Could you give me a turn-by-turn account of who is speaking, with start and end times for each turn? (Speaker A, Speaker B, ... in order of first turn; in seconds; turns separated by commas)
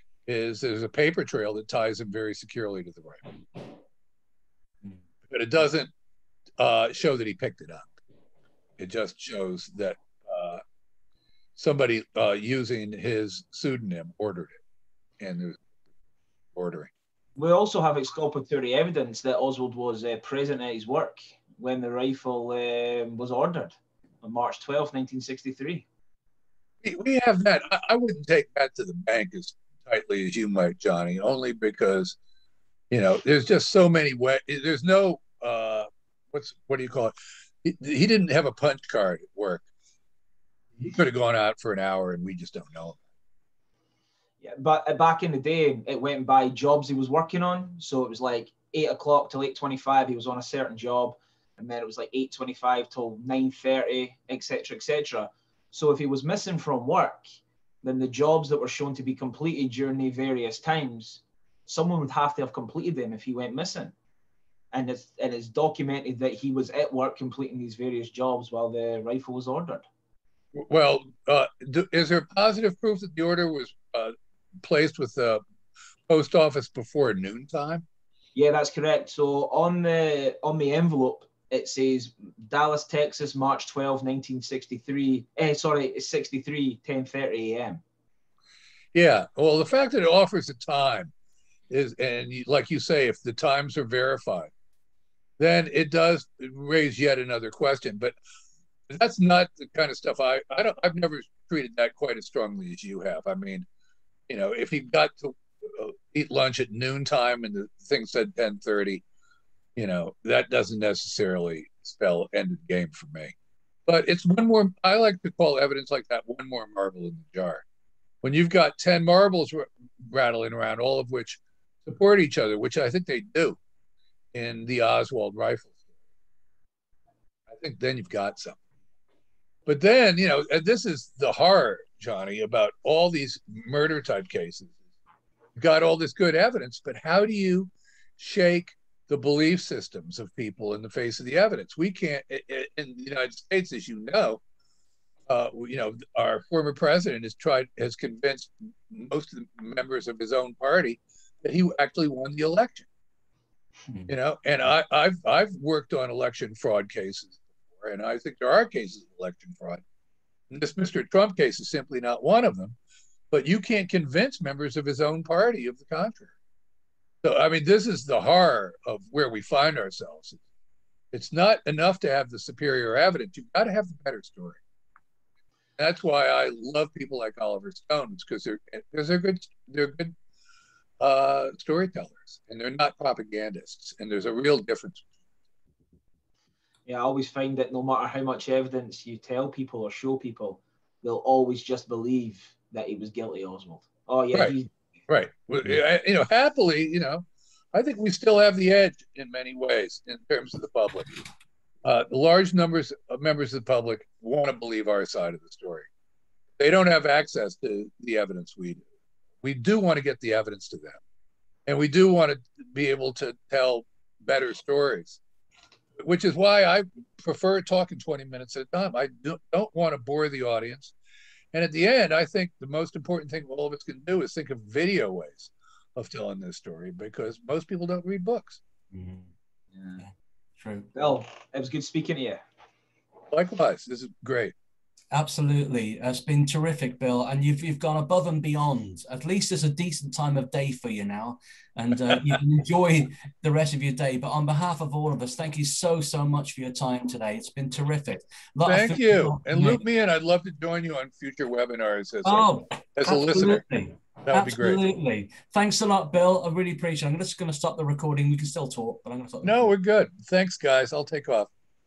Speaker A: 0.2-3.6, Speaker A: 5.2-5.9, Speaker A: 6.6-7.9, Speaker A: 8.8-10.6, Speaker A: 11.6-14.6, Speaker A: 15.2-15.6, Speaker A: 16.5-16.9, Speaker B: 17.4-25.9, Speaker A: 26.8-32.2, Speaker A: 32.9-39.6, Speaker A: 40.8-43.0, Speaker B: 44.4-63.9, Speaker B: 64.7-69.8, Speaker A: 70.5-75.4, Speaker A: 76.1-77.8, Speaker B: 78.3-87.8, Speaker A: 88.9-91.1, Speaker A: 91.7-94.5, Speaker A: 95.4-98.1, Speaker A: 98.9-103.7, Speaker A: 104.3-109.0, Speaker A: 109.7-113.3, Speaker A: 113.9-117.6, Speaker A: 118.2-123.6, Speaker A: 124.3-125.8, Speaker A: 127.5-128.6, Speaker A: 129.7-134.8, Speaker A: 135.6-144.4, Speaker A: 145.3-152.9, Speaker A: 154.1-159.8, Speaker A: 160.5-162.8, Speaker A: 163.3-166.3, Speaker A: 167.2-170.4, Speaker A: 171.1-174.6, Speaker A: 175.8-180.1, Speaker A: 181.0-185.0, Speaker B: 186.8-194.7, Speaker A: 195.1-201.1, Speaker A: 201.8-205.9, Speaker A: 206.6-208.8, Speaker A: 209.4-211.0, Speaker A: 211.7-215.2, Speaker A: 216.0-220.9, Speaker A: 221.5-228.6, Speaker C: 228.9-229.3, Speaker B: 229.8-230.0, Speaker C: 230.0-230.9, Speaker B: 230.9-232.4, Speaker A: 233.3-234.5, Speaker C: 235.1-249.8, Speaker A: 248.7-253.6, Speaker C: 252.2-259.7, Speaker A: 254.2-254.8, Speaker A: 259.4-261.5